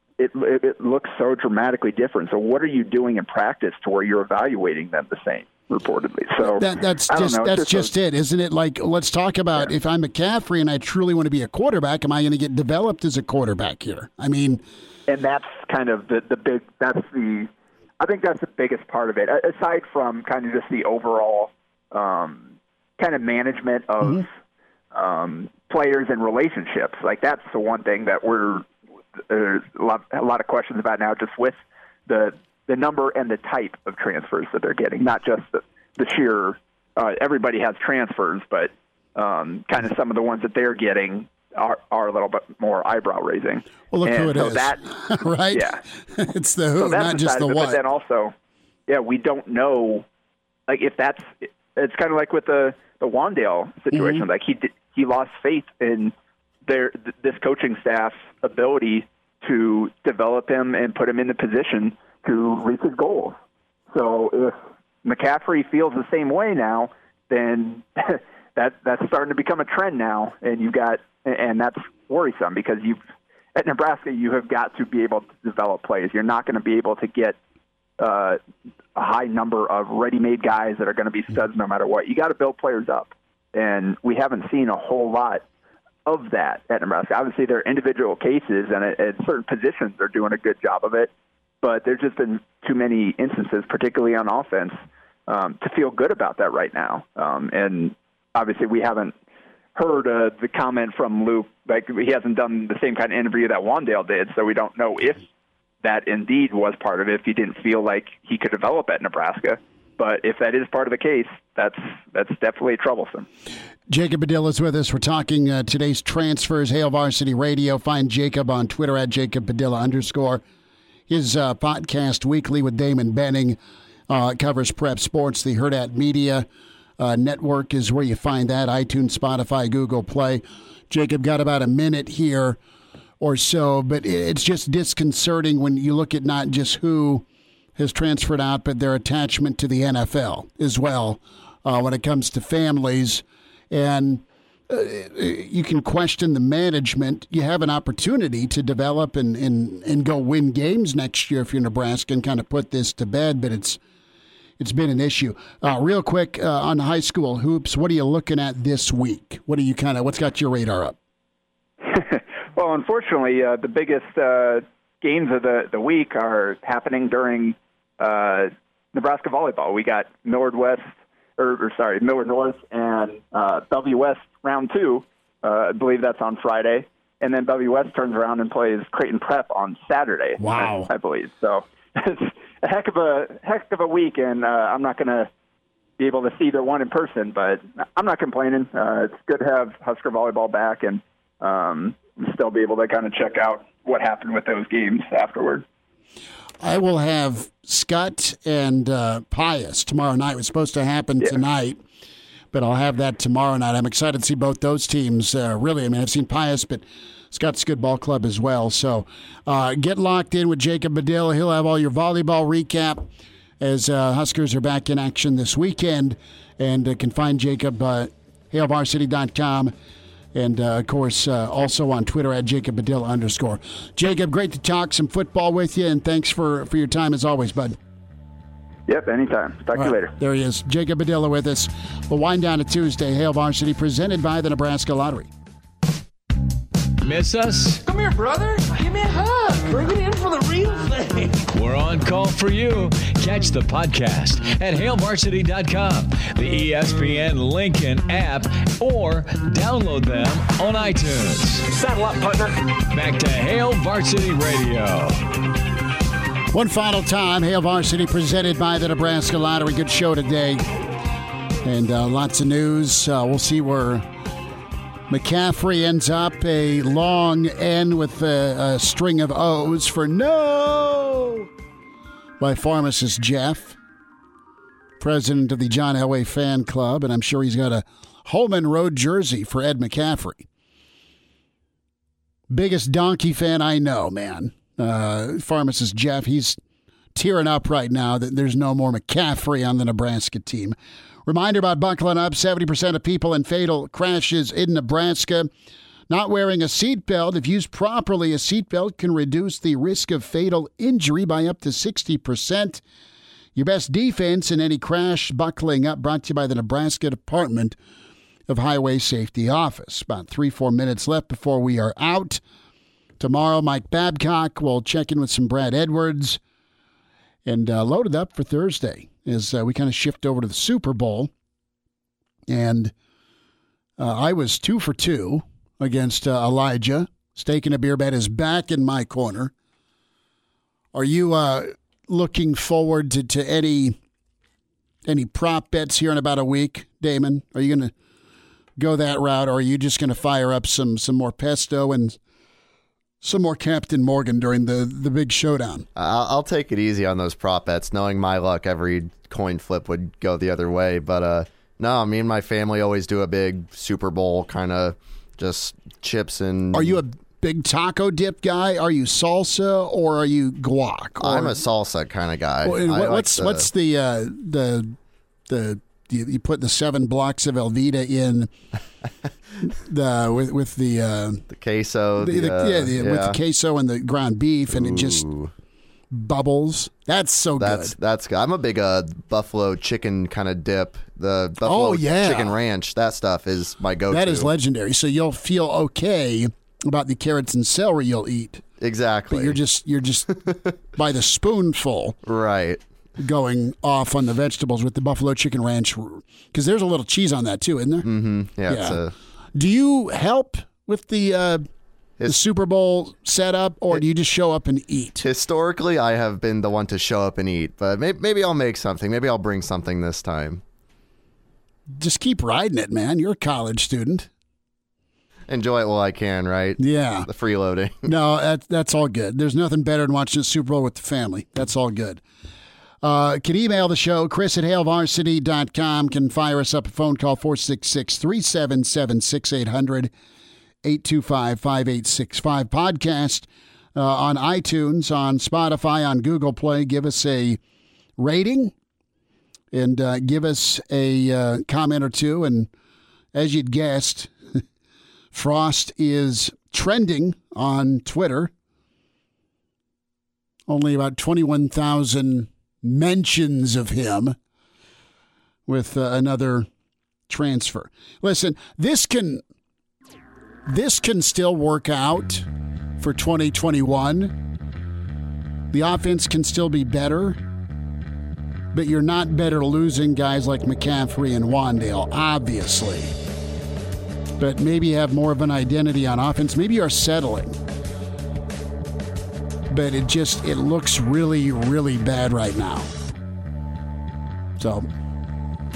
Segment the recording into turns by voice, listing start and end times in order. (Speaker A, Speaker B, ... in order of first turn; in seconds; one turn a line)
Speaker A: 0.2-7.9
Speaker B: 6.4-14.6
Speaker A: 15.1-24.3
Speaker A: 24.9-28.7
Speaker A: 29.3-44.8
Speaker B: 43.9-47.8
Speaker A: 45.5-45.8
Speaker A: 46.8-48.3
Speaker A: 48.9-50.0
Speaker A: 50.7-56.1
Speaker B: 53.9-54.2
Speaker A: 56.6-63.3
Speaker A: 63.9-73.0
Speaker A: 73.5-77.3
Speaker A: 78.0-78.4
Speaker A: 79.0-85.4
Speaker A: 86.0-91.1
Speaker A: 91.6-99.2
Speaker A: 99.7-105.2
Speaker A: 105.8-113.3
Speaker B: 113.9-120.4
Speaker B: 121.1-123.6
Speaker B: 124.1-126.5
Speaker B: 127.0-132.6
Speaker B: 133.2-137.2
Speaker B: 137.8-153.8
Speaker B: 154.6-160.9
Speaker A: 161.8-185.3
Speaker B: 180.4-180.9
Speaker A: 186.0-195.6
Speaker B: 196.6-201.8
Speaker B: 202.5-213.1
Speaker B: 213.6-219.7
Speaker B: 220.3-227.8
Speaker A: 228.9-230.1
Speaker B: 229.8-235.3
Speaker C: 237.0-237.8
Speaker D: 237.8-241.5
Speaker C: 241.5-255.2
Speaker D: 251.7-252.5
Speaker B: 256.5-260.6
Speaker B: 261.6-264.0
Speaker B: 265.1-271.5
Speaker B: 272.4-273.8
Speaker B: 275.0-280.5
Speaker B: 282.5-286.6
Speaker B: 287.1-295.5
Speaker B: 296.1-302.8
Speaker B: 303.5-307.8
Speaker B: 308.5-312.4
Speaker B: 313.2-316.4
Speaker B: 317.4-321.3
Speaker B: 322.5-322.9
Speaker B: 324.0-329.5
Speaker B: 330.9-334.0
Speaker B: 335.1-337.9
Speaker B: 338.8-342.2
Speaker B: 343.2-345.9
Speaker E: 345.9-357.0
Speaker B: 356.7-361.6
Speaker E: 361.2-363.7
Speaker B: 362.6-364.9
Speaker B: 365.5-368.5
Speaker B: 369.6-371.4
Speaker E: 371.5-373.4
Speaker B: 372.2-375.2
Speaker E: 374.7-375.5
Speaker B: 376.1-377.9
Speaker E: 377.6-384.5
Speaker B: 381.6-382.6
Speaker B: 384.1-388.6
Speaker E: 388.8-389.6
Speaker B: 389.3-392.2
Speaker E: 392.2-392.8
Speaker B: 393.2-398.1
Speaker E: 398.0-399.1
Speaker B: 398.6-399.0
Speaker B: 399.5-401.6
Speaker B: 402.2-405.2
Speaker E: 405.2-410.6
Speaker B: 411.9-414.3
Speaker E: 415.5-418.1
Speaker B: 416.8-417.3
Speaker B: 418.0-422.2
Speaker B: 423.0-430.1
Speaker B: 430.8-437.6
Speaker B: 438.2-438.7
Speaker B: 439.7-442.7
Speaker B: 443.3-444.3
Speaker B: 445.3-448.5
Speaker B: 450.7-454.4
Speaker B: 455.7-456.7
Speaker B: 457.3-459.4
Speaker B: 460.6-462.5
Speaker B: 463.0-464.4
Speaker B: 465.7-467.4
Speaker B: 468.7-473.1
Speaker B: 474.4-477.6
Speaker B: 479.7-482.9
Speaker B: 484.6-484.9